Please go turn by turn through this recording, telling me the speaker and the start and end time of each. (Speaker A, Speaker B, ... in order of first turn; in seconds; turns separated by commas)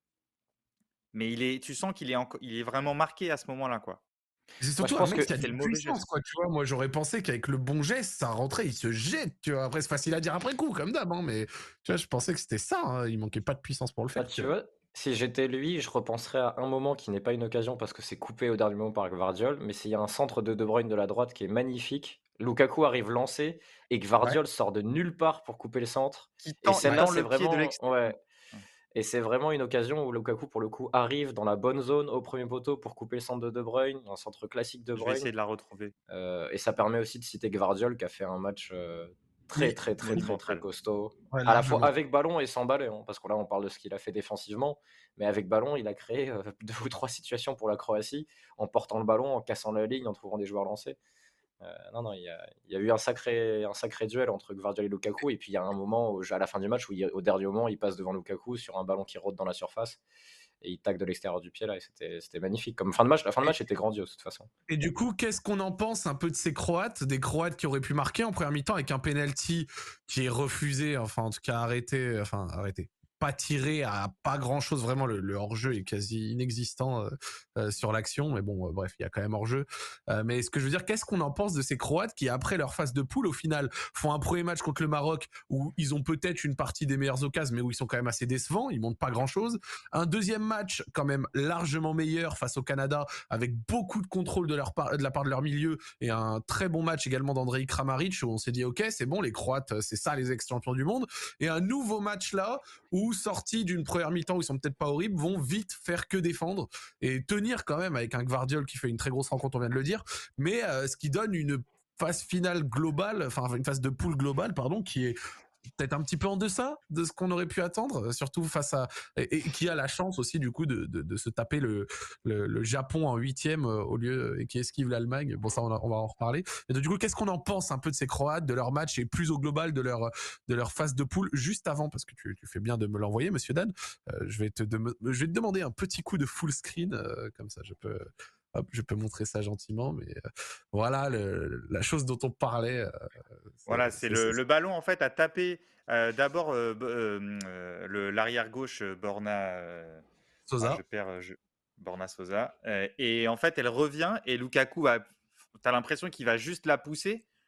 Speaker A: 1.1-4.0, Speaker B: 4.6-14.5, Speaker C: 4.8-5.3, Speaker A: 5.0-6.0, Speaker C: 14.2-28.1, Speaker A: 26.4-28.6, Speaker B: 26.8-27.1, Speaker C: 28.9-35.3, Speaker A: 35.0-35.9, Speaker C: 36.1-51.0, Speaker B: 39.5-40.3, Speaker A: 40.0-40.6, Speaker B: 41.3-41.9, Speaker C: 51.6-60.0, Speaker C: 60.6-64.5, Speaker B: 64.7-115.2, Speaker B: 115.8-140.2, Speaker B: 140.7-142.9, Speaker B: 143.5-144.4, Speaker A: 143.7-150.0, Speaker B: 150.5-150.8, Speaker A: 150.6-155.1, Speaker A: 155.6-157.2